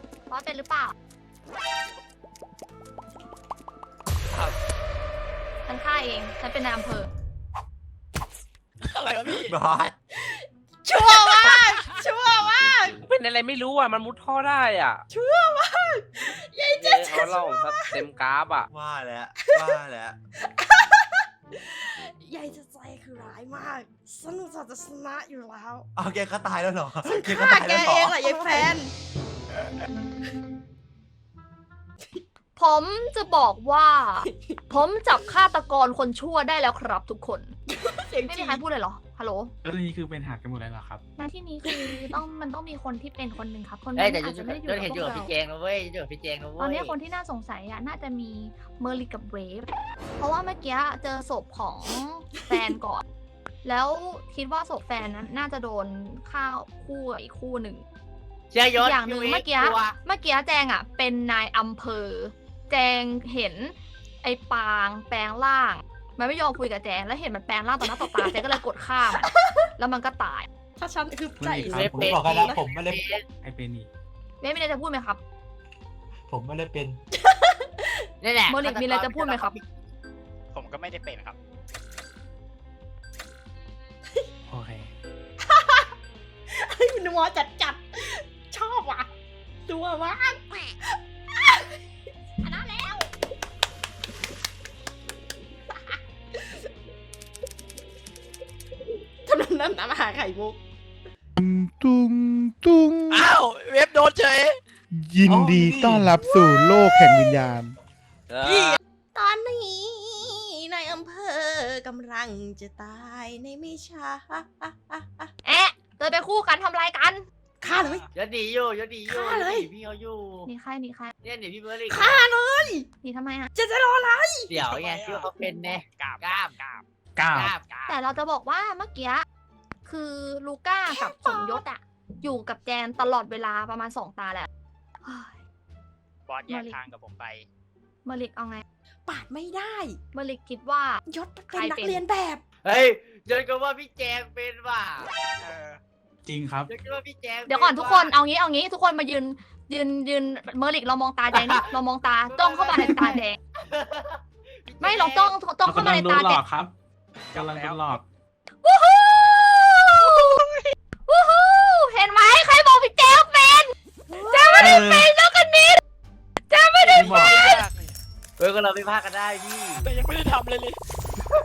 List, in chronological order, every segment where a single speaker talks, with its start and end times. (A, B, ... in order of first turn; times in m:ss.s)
0:00.3-0:01.0 A
0:05.7-0:07.1 A
0:08.8-0:09.6 B
0:09.5-0:10.0 C
0:10.2-0:13.0 D
0:13.1-0:15.0 E
0:15.1-0:18.0 D
0:16.8-0:18.7 E
0:18.7-0:20.2 C
0:19.4-0:19.8 D
0:20.4-0:25.9 D
0:26.0-0:28.3 C
0:27.0-0:28.9 D
0:32.6-0:37.6 A
0:34.2-0:34.6 D
0:37.7-0:38.6 D
0:38.3-0:39.5 A
0:39.6-0:41.0 F
0:41.2-0:45.3 A
0:41.6-0:42.2 D
0:44.0-0:47.0 G
0:46.6-0:53.0 A
0:53.6-0:57.8 A
0:58.5-1:00.0 G
0:58.8-1:10.5 A
1:08.0-1:08.4 D
1:09.2-1:09.7 D
1:10.8-1:12.6 D
1:11.4-1:13.9 F
1:11.8-1:13.3 G
1:14.4-1:15.2 A
1:16.3-1:17.0 F
1:17.2-1:18.0 D
1:18.2-1:19.6 G
1:18.5-1:19.6 A
1:20.5-1:21.4 B
1:24.5-1:24.9 F
1:25.5-1:25.9 D
1:26.5-1:29.1 D
1:29.7-1:31.6 D
1:32.4-1:33.1 D
1:39.2-1:40.6 D
1:41.4-1:43.3 H
1:43.1-1:44.6 B
1:44.9-1:47.8 H
1:45.3-1:46.1 F
1:46.2-1:47.4 D
1:48.3-1:48.7 E
1:48.4-1:48.8 B
1:49.1-1:55.3 D
1:55.4-1:57.2 A
1:57.6-1:58.1 D
1:57.7-1:58.1 B
1:58.1-2:00.5 G
1:59.1-1:59.7 D
2:00.5-2:01.1 A
2:01.2-2:02.3 G
2:01.9-2:02.9 D
2:03.0-2:03.5 A
2:03.6-2:04.6 D
2:04.5-2:06.8 G
2:04.7-2:05.3 B
2:05.9-2:06.8 B
2:07.2-2:07.5 F
2:07.4-2:07.6 G
2:07.7-2:07.9 B
2:07.9-2:09.2 A
2:09.8-2:14.5 A
2:10.9-2:11.6 D
2:15.0-2:15.4 A
2:16.3-2:17.5 B
2:16.5-2:16.8 A
2:18.0-2:18.6 A
2:19.1-2:20.0 D
2:20.1-2:21.0 A
2:21.1-2:22.4 D
2:21.5-2:22.0 A
2:22.6-2:25.1 G
2:25.4-2:25.8 B
2:26.3-2:26.7 F
2:26.7-2:28.2 G
2:27.5-2:33.4 A
2:31.3-2:31.7 G
2:32.3-2:35.4 G
2:34.8-2:36.4 A
2:35.6-2:36.7 F
2:37.3-2:37.9 B
2:37.4-2:38.0 F
2:38.6-2:40.4 A
2:41.1-2:43.7 A
2:44.1-2:45.1 D
2:44.3-2:45.8 A
2:46.5-2:47.6 A
2:46.8-2:48.0 B
2:48.4-2:49.9 G
2:49.8-2:50.8 B